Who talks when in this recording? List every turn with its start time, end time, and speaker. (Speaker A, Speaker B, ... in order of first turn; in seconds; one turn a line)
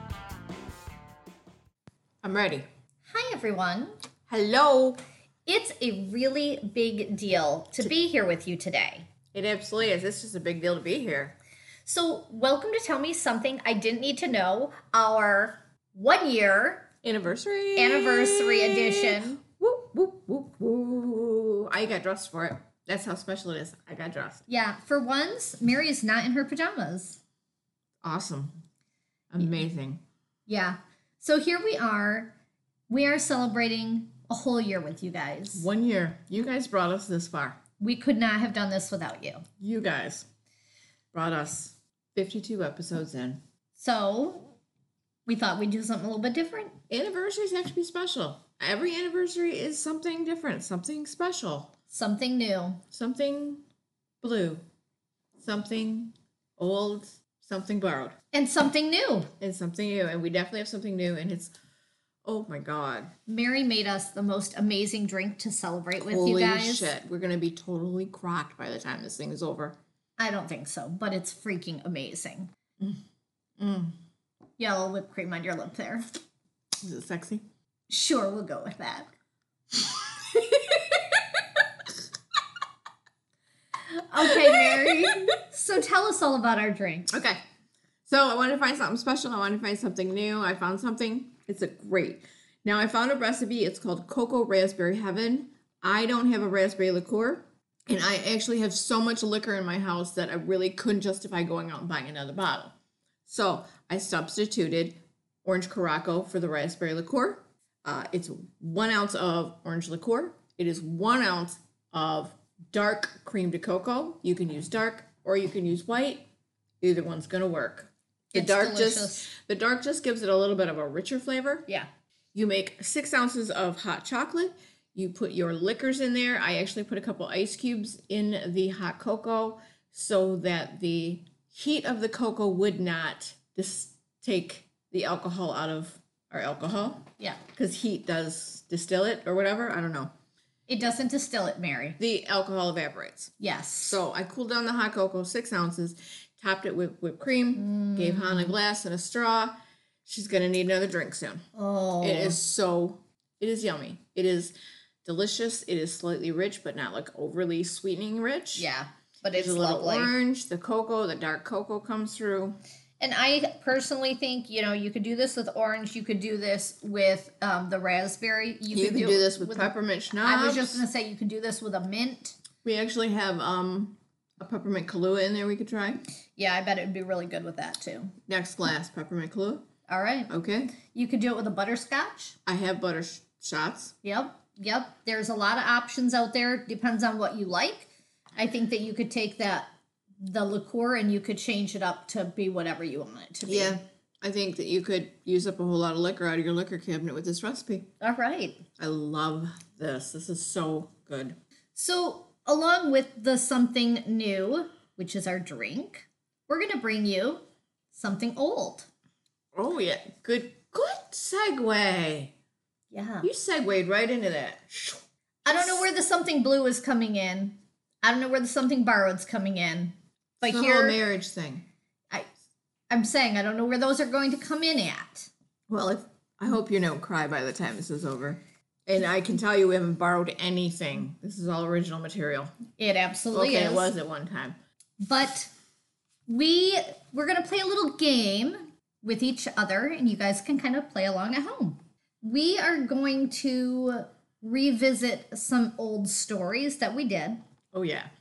Speaker A: 2.2-2.6
Speaker B: 3.1-3.9
Speaker A: 4.3-5.0
Speaker B: 5.5-9.1
Speaker A: 9.3-11.3
Speaker B: 11.8-16.9
Speaker A: 17.0-24.4
Speaker B: 17.8-19.4
Speaker B: 24.5-27.2
Speaker A: 28.0-28.5
Speaker A: 29.3-30.0
Speaker B: 30.5-32.3
Speaker B: 32.9-35.7
Speaker A: 35.5-37.6
Speaker B: 37.8-39.4
Speaker A: 39.6-40.2
Speaker A: 41.1-43.4
Speaker B: 43.8-44.5
Speaker B: 45.2-46.8
Speaker A: 46.9-51.7
Speaker B: 51.9-52.8
Speaker A: 52.9-53.6
Speaker A: 54.2-54.6
Speaker A: 55.4-58.1
Speaker B: 58.3-59.3
Speaker A: 59.4-61.5
Speaker A: 62.2-63.1
Speaker B: 63.3-66.9
Speaker A: 66.0-69.8
Speaker B: 70.2-72.5
Speaker A: 73.6-73.9
Speaker B: 74.6-76.0
Speaker A: 76.8-77.4
Speaker B: 77.9-79.1
Speaker B: 83.9-87.1
Speaker A: 84.2-85.3
Speaker A: 87.1-87.4
Speaker A: 88.0-102.7
Speaker A: 103.2-116.2
Speaker A: 116.8-121.7
Speaker B: 118.3-119.3
Speaker A: 122.3-140.1
Speaker B: 140.7-142.0
Speaker A: 142.0-151.4
Speaker B: 143.4-144.0
Speaker B: 147.6-148.5
Speaker B: 151.6-152.4
Speaker A: 152.0-154.5
Speaker A: 155.0-158.7
Speaker B: 158.6-160.1
Speaker A: 159.3-162.6
Speaker B: 163.0-172.4
Speaker A: 168.7-170.8
Speaker A: 172.6-176.0
Speaker B: 176.4-178.1
Speaker A: 178.3-179.6
Speaker B: 179.9-182.3
Speaker A: 180.3-180.7
Speaker A: 182.4-183.9
Speaker B: 184.0-193.8
Speaker A: 193.4-197.9
Speaker B: 198.0-198.6
Speaker A: 198.8-201.3
Speaker B: 201.7-208.9
Speaker A: 209.5-212.3
Speaker B: 212.9-213.3
Speaker A: 213.2-215.9
Speaker B: 215.4-221.0
Speaker A: 220.4-221.6
Speaker B: 222.9-225.3
Speaker A: 225.7-232.5
Speaker B: 232.8-233.9
Speaker A: 233.3-234.6
Speaker B: 235.0-235.5
Speaker B: 236.3-247.4
Speaker A: 247.7-248.1